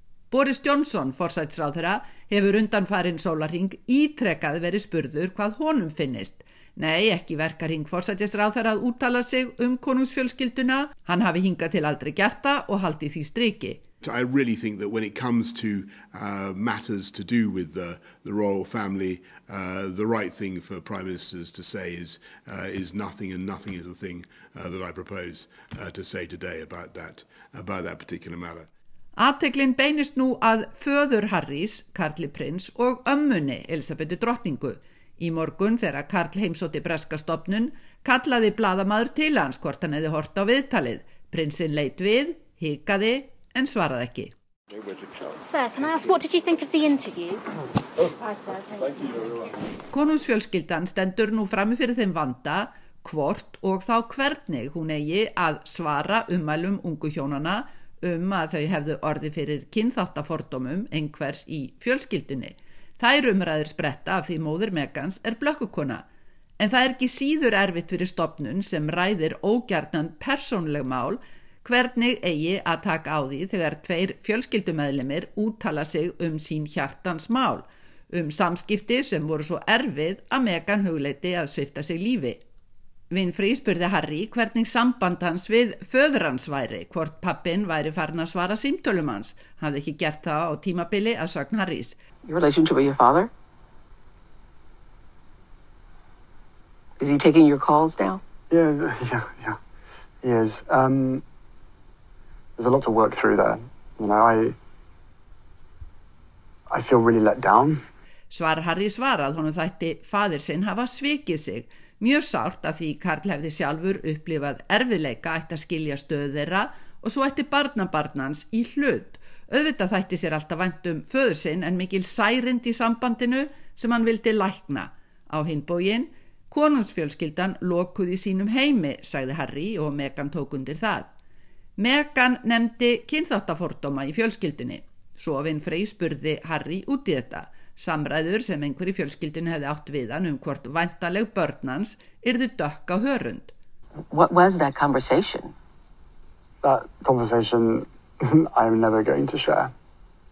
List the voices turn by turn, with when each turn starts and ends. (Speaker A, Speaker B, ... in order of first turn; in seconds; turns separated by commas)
Speaker A: 0.3-13.8, Speaker B: 14.0-28.7, Speaker A: 29.2-44.3, Speaker C: 45.4-47.4, Speaker C: 48.2-49.1, Speaker A: 49.9-66.0, Speaker A: 66.6-82.4, Speaker A: 83.1-92.0, Speaker D: 92.2-93.3, Speaker D: 97.0-98.2, Speaker E: 98.5-99.6, Speaker E: 100.2-101.2, Speaker E: 102.6-104.6, Speaker E: 106.7-107.8, Speaker A: 108.3-131.1, Speaker A: 131.8-143.5, Speaker D: 144.1-145.5, Speaker E: 146.6-149.7